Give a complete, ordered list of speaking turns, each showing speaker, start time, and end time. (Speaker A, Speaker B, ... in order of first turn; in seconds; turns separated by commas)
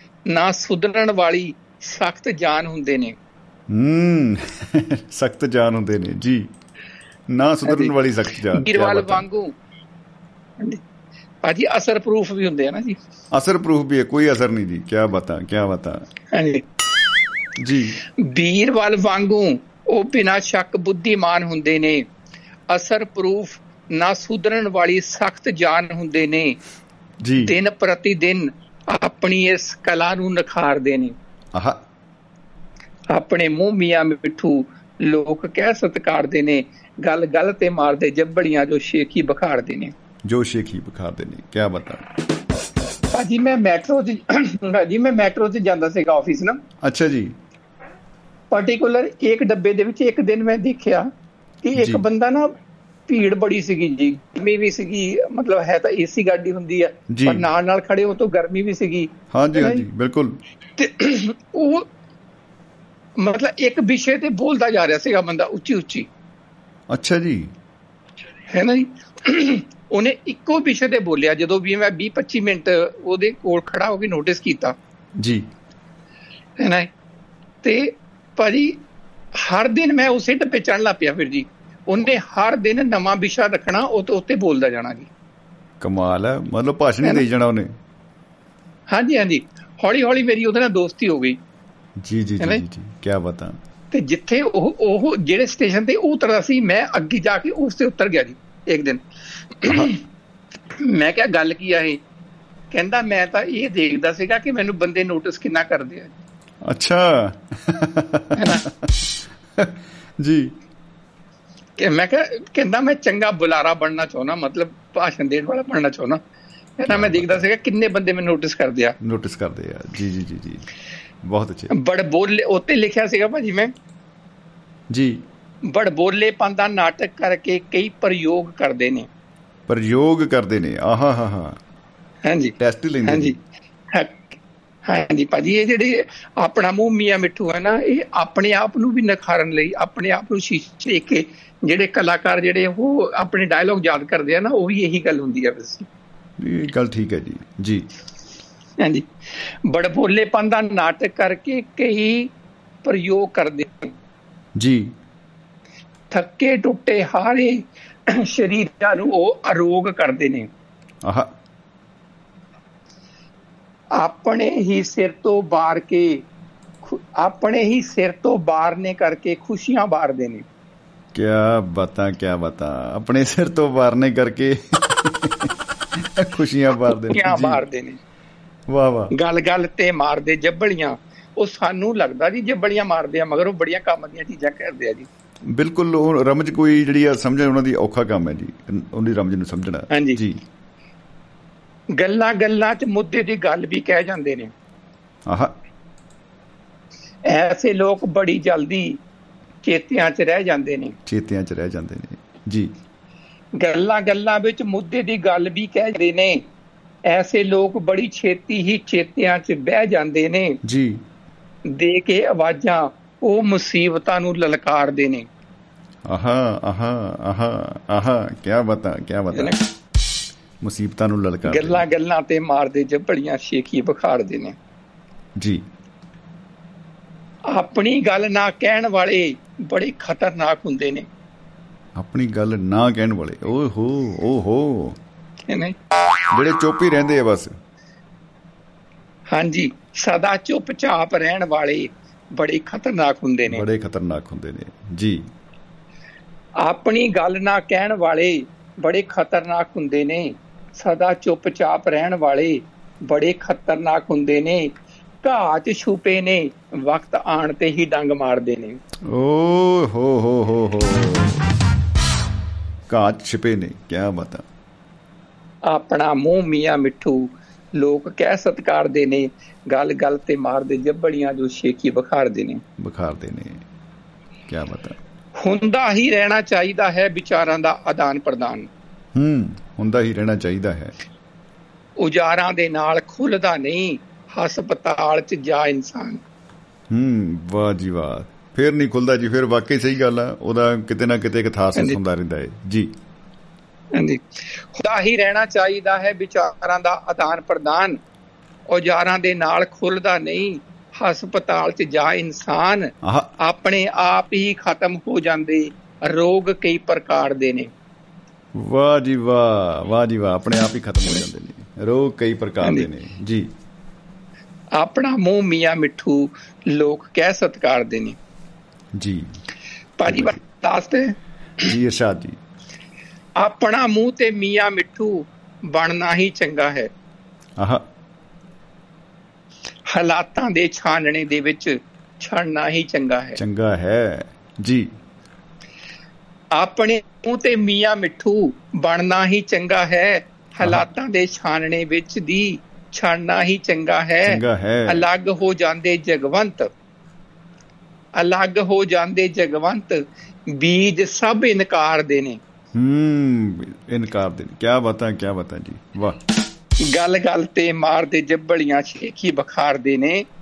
Speaker A: 0.3-3.2, Speaker B: 3.7-6.5, Speaker B: 7.3-9.2, Speaker A: 7.7-7.9, Speaker A: 8.6-9.5, Speaker A: 11.4-13.0, Speaker B: 13.3-16.0, Speaker A: 16.3-16.6, Speaker B: 17.6-18.0, Speaker A: 18.2-22.1, Speaker A: 22.7-26.6, Speaker B: 27.2-27.5, Speaker A: 27.4-31.1, Speaker B: 31.5-31.8, Speaker A: 33.1-39.9, Speaker B: 40.2-42.1, Speaker A: 43.1-46.6, Speaker B: 46.8-47.4, Speaker A: 48.5-51.1, Speaker A: 51.6-52.5, Speaker B: 51.8-52.0, Speaker A: 53.1-59.8, Speaker B: 57.1-57.5, Speaker B: 59.3-60.4, Speaker A: 60.8-61.9, Speaker A: 63.2-66.1, Speaker B: 66.9-67.5, Speaker A: 68.5-74.8, Speaker B: 75.2-75.5, Speaker A: 76.6-76.9, Speaker A: 77.6-78.8, Speaker A: 79.4-85.1, Speaker B: 85.8-87.7, Speaker A: 88.9-91.4, Speaker B: 92.0-93.6, Speaker A: 93.9-99.0, Speaker A: 99.6-100.0, Speaker A: 100.8-102.0, Speaker A: 102.7-106.1, Speaker B: 106.7-108.7, Speaker A: 108.4-108.6, Speaker B: 109.6-110.5, Speaker A: 111.8-116.2, Speaker A: 116.8-119.0, Speaker B: 116.9-117.4, Speaker B: 119.0-120.7, Speaker B: 121.2-121.7, Speaker A: 121.7-123.7, Speaker B: 124.9-125.2, Speaker A: 125.7-129.1, Speaker B: 129.7-131.6, Speaker A: 132.3-132.6, Speaker B: 132.6-133.4, Speaker A: 133.1-133.3, Speaker A: 133.9-134.3, Speaker A: 134.9-145.9, Speaker B: 146.4-147.9, Speaker A: 148.8-149.1, Speaker A: 149.7-152.3, Speaker A: 152.8-154.0, Speaker B: 154.6-154.9, Speaker A: 156.1-160.5, Speaker B: 161.0-161.3, Speaker A: 164.0-166.2, Speaker A: 166.8-170.5, Speaker B: 171.1-177.6, Speaker A: 176.9-178.0, Speaker B: 178.7-179.1, Speaker A: 179.1-185.1, Speaker B: 185.5-190.4, Speaker A: 189.9-190.2, Speaker A: 191.9-194.5, Speaker B: 195.3-195.5, Speaker A: 197.3-199.0, Speaker A: 199.6-201.0, Speaker B: 201.1-202.7, Speaker A: 203.6-206.4, Speaker A: 207.1-210.6, Speaker B: 210.7-211.0, Speaker A: 211.7-215.3, Speaker B: 216.1-219.5, Speaker A: 219.3-219.6, Speaker B: 220.6-221.8, Speaker A: 221.5-224.6, Speaker B: 225.4-225.6, Speaker A: 227.5-231.1, Speaker B: 232.0-235.0, Speaker A: 235.5-235.8, Speaker B: 236.3-237.5, Speaker A: 239.3-243.6, Speaker B: 243.5-245.2, Speaker A: 246.6-258.8, Speaker B: 259.1-261.5, Speaker B: 262.9-264.4, Speaker A: 265.7-267.2, Speaker A: 267.8-272.6, Speaker B: 272.8-273.6, Speaker B: 274.5-275.0, Speaker A: 275.4-278.7, Speaker B: 279.1-280.9, Speaker A: 282.0-286.2, Speaker B: 286.9-292.9, Speaker A: 293.9-298.0, Speaker A: 298.7-307.7, Speaker B: 303.0-303.3, Speaker B: 308.6-313.5, Speaker A: 314.8-318.2, Speaker B: 318.9-319.4, Speaker A: 320.0-321.2, Speaker B: 320.1-320.4, Speaker B: 321.6-322.4, Speaker A: 323.4-326.9, Speaker B: 327.6-327.8, Speaker A: 329.9-333.4, Speaker B: 333.4-334.9, Speaker A: 336.6-346.7, Speaker B: 340.6-340.9, Speaker B: 344.2-345.1, Speaker A: 348.2-350.0, Speaker A: 350.5-352.4, Speaker B: 352.8-356.2, Speaker A: 356.8-360.2